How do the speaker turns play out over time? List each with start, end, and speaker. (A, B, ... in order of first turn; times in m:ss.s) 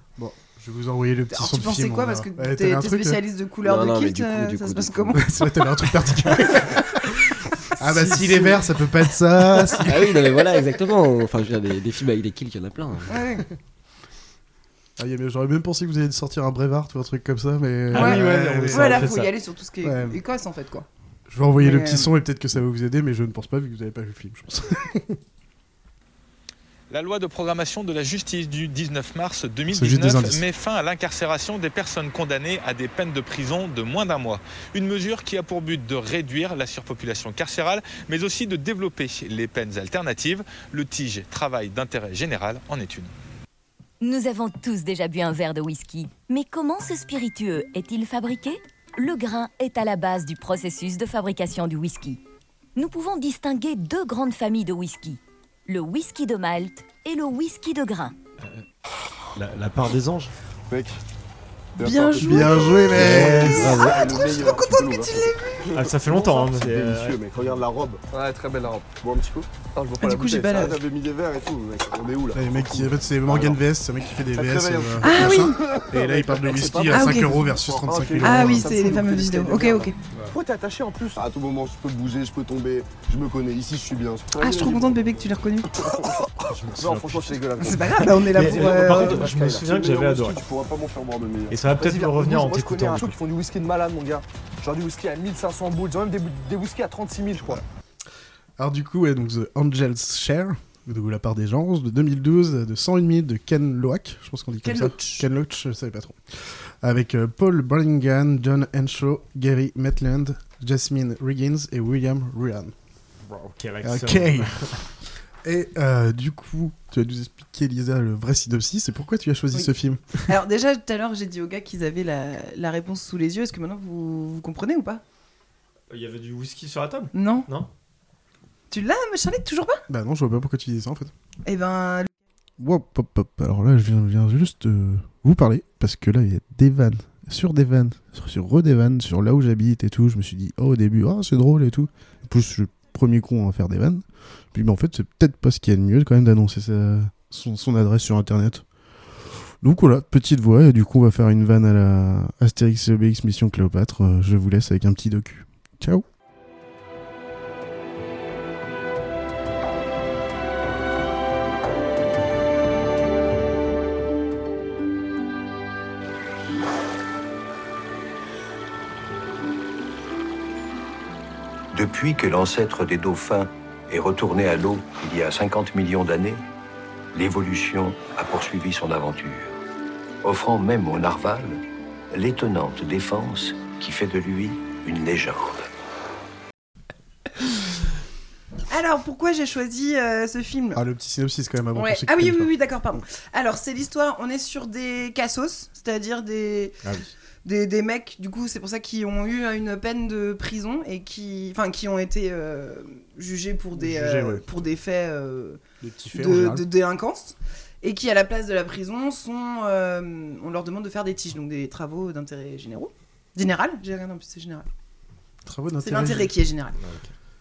0:00.2-0:03.2 A
0:01.3-0:05.5 B
0:03.6-0:05.2 C
0:05.1-0:07.0 A
0:07.8-0:10.4 A
0:08.0-0:08.4 B
0:09.8-0:13.2 C
0:13.1-0:13.4 B
0:15.0-0:19.2 A
0:17.9-0:19.3 D
0:17.9-0:20.9 B
0:19.8-0:20.2 A
0:21.3-0:25.2 A
0:21.6-0:22.1 B
0:26.9-0:43.1 E
0:29.7-0:30.4 A
0:44.0-0:52.2 F
0:52.8-0:58.1 F
0:59.3-1:00.3 D
1:00.7-1:01.0 G
1:01.8-1:13.6 G
1:01.8-1:02.9 B
1:02.2-1:03.9 A
1:02.9-1:03.7 D
1:04.1-1:05.4 B
1:05.7-1:07.6 D
1:10.0-1:10.8 B
1:12.3-1:18.8 A
1:14.3-1:25.2 G
1:15.0-1:15.6 B
1:16.9-1:17.4 B
1:18.2-1:20.0 B
1:24.4-1:25.9 B
1:25.8-1:37.6 G
1:26.5-1:30.4 D
1:27.6-1:29.3 B
1:31.5-1:33.1 D
1:38.6-1:52.7 A
1:44.6-1:45.3 B
1:53.3-1:54.8 D
1:53.8-1:54.6 A
1:55.4-2:00.3 A
2:00.2-2:05.0 B
2:05.9-2:07.7 D
2:07.1-2:07.5 B
2:08.7-2:09.8 B
2:09.9-2:11.1 A
2:11.4-2:12.1 B
2:12.6-2:28.6 A
2:29.6-2:36.0 A
2:51.7-2:56.4 H
2:57.1-2:59.5 H
3:00.2-3:05.7 H
3:08.7-3:10.8 B
3:10.7-3:12.5 A
3:11.7-3:16.8 B
3:16.8-3:17.1 D
3:17.4-3:25.6 B
3:23.8-3:24.4 A
3:25.8-3:26.6 A
3:26.1-3:34.7 B
3:35.4-3:36.3 A
3:35.8-3:36.8 B
3:36.8-3:37.1 D